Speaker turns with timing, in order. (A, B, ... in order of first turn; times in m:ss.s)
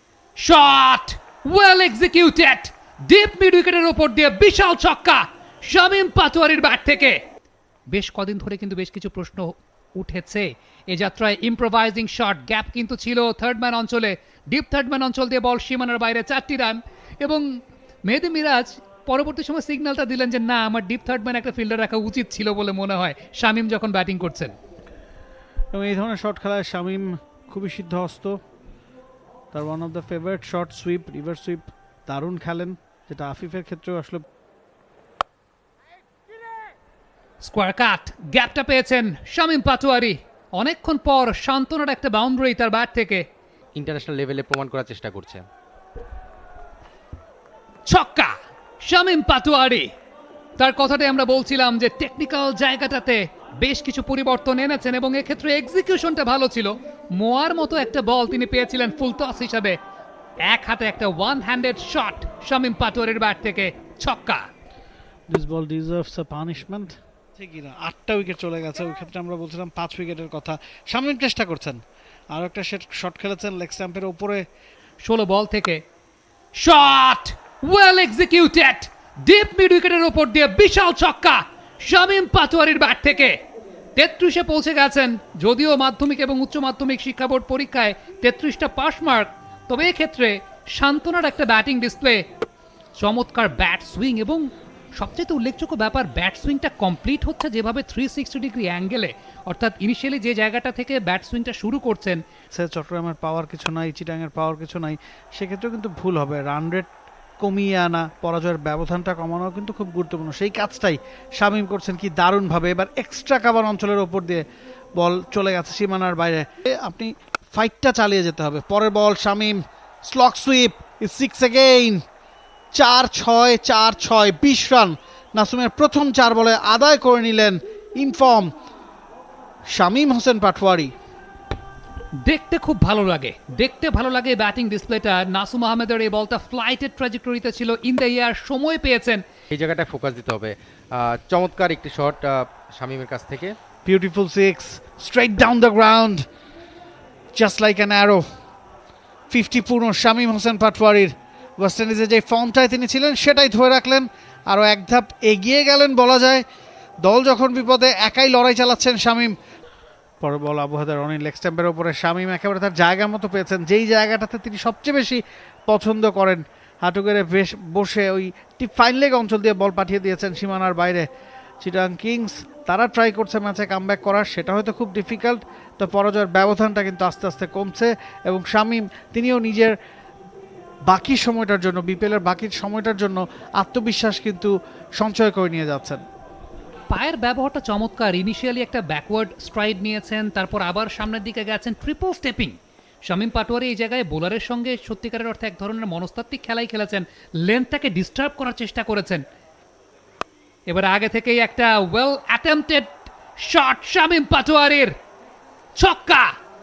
0:00.4-0:07.2 A
0:07.9-0:17.4 A
0:18.1-0:24.5 A
0:25.7-0:28.4 B
0:29.5-0:34.2 B
0:37.4-0:43.2 A
0:43.7-0:45.4 C
0:47.9-0:49.9 A
0:50.6-0:59.8 A
1:00.4-1:04.4 A
1:05.3-1:11.8 B
1:12.3-1:14.4 B
1:15.0-1:15.8 A
1:16.6-1:23.4 A
1:24.0-1:32.2 A
1:33.0-1:42.2 A
1:42.5-1:46.9 B
1:47.4-1:54.4 B
1:55.0-2:02.0 B
2:02.7-2:08.5 B
2:09.7-2:10.9 B
2:12.2-2:19.2 A
2:19.5-2:23.5 C
2:23.8-2:26.2 B
2:27.3-2:28.2 B
2:29.3-2:36.4 B
2:37.0-2:39.3 B
2:40.2-2:51.0 B
2:51.6-2:59.7 B
3:00.9-3:06.0 B
3:06.9-3:12.5 A
3:13.0-3:19.2 A
3:20.7-3:24.9 A
3:25.8-3:26.3 A